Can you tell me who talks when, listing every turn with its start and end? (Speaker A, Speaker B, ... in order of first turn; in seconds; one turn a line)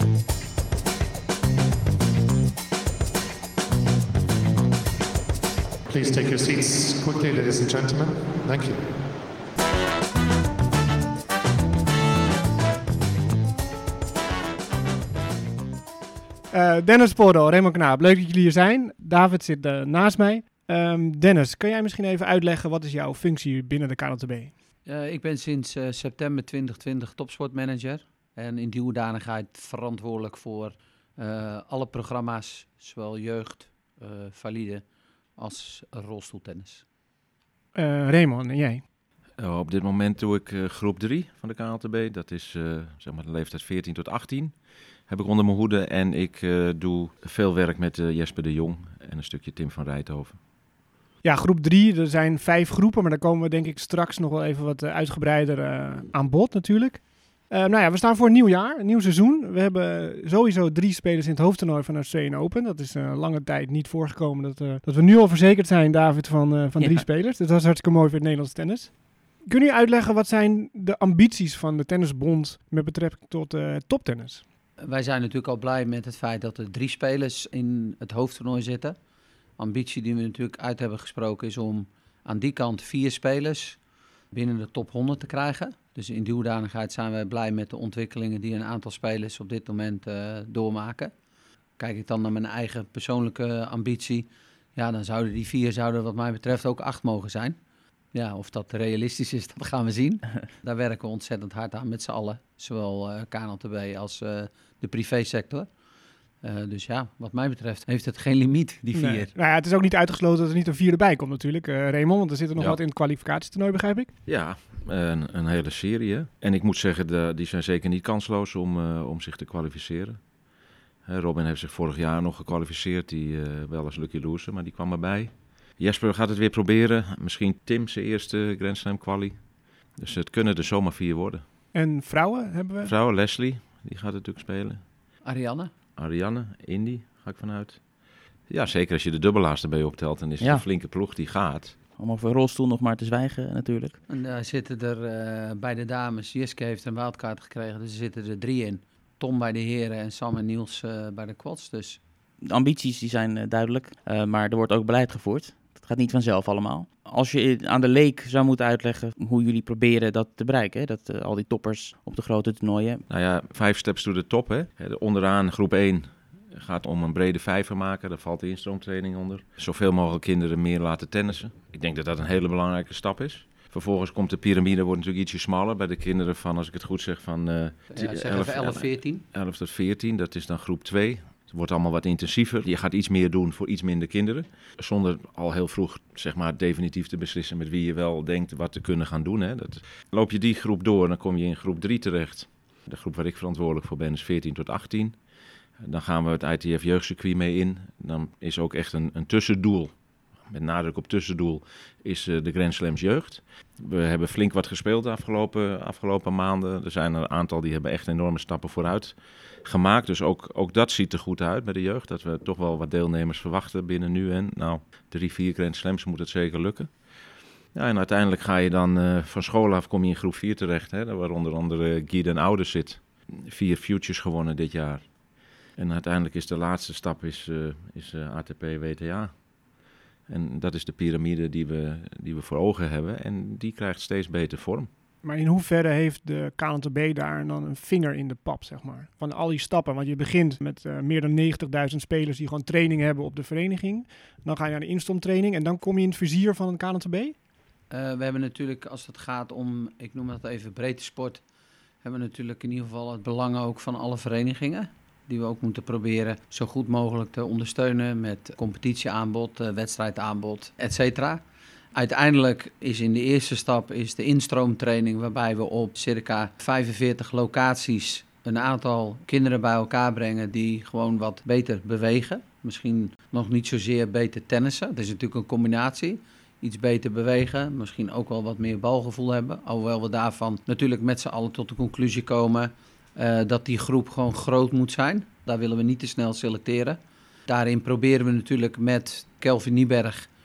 Speaker A: 5.9-8.8
Speaker B: 16.5-24.5
Speaker C: 24.9-34.8
Speaker C: 35.4-36.8
Speaker B: 37.8-38.8
Speaker D: 39.4-44.5
Speaker D: 45.1-50.4
Speaker B: 51.2-68.9
Speaker E: 66.8-67.0
Speaker B: 69.5-74.4
Speaker C: 74.8-79.0
Speaker C: 79.6-83.8
Speaker C: 84.3-91.1
Speaker C: 91.8-97.6
Speaker C: 98.1-105.7
Speaker C: 106.4-109.3
Speaker B: 108.9-114.1
Speaker D: 114.3-120.2
Speaker D: 121.1-129.4
Speaker D: 130.0-131.4
Speaker B: 131.7-132.9
Speaker D: 132.8-134.8
Speaker C: 135.2-135.7
Speaker D: 136.0-137.8
Speaker D: 138.5-141.8
Speaker E: 142.0-144.0
Speaker C: 144.1-152.0
Speaker E: 152.5-163.0
Speaker D: 163.1-195.2
Speaker C: 177.9-179.2
Speaker D: 195.8-199.9
Speaker D: 200.5-216.9
Speaker D: 217.8-225.1
Speaker D: 225.8-229.3
Speaker D: 230.3-234.9
Speaker B: 235.2-247.3
Speaker C: 247.9-251.4
Speaker C: 252.0-261.4
Speaker C: 261.9-290.3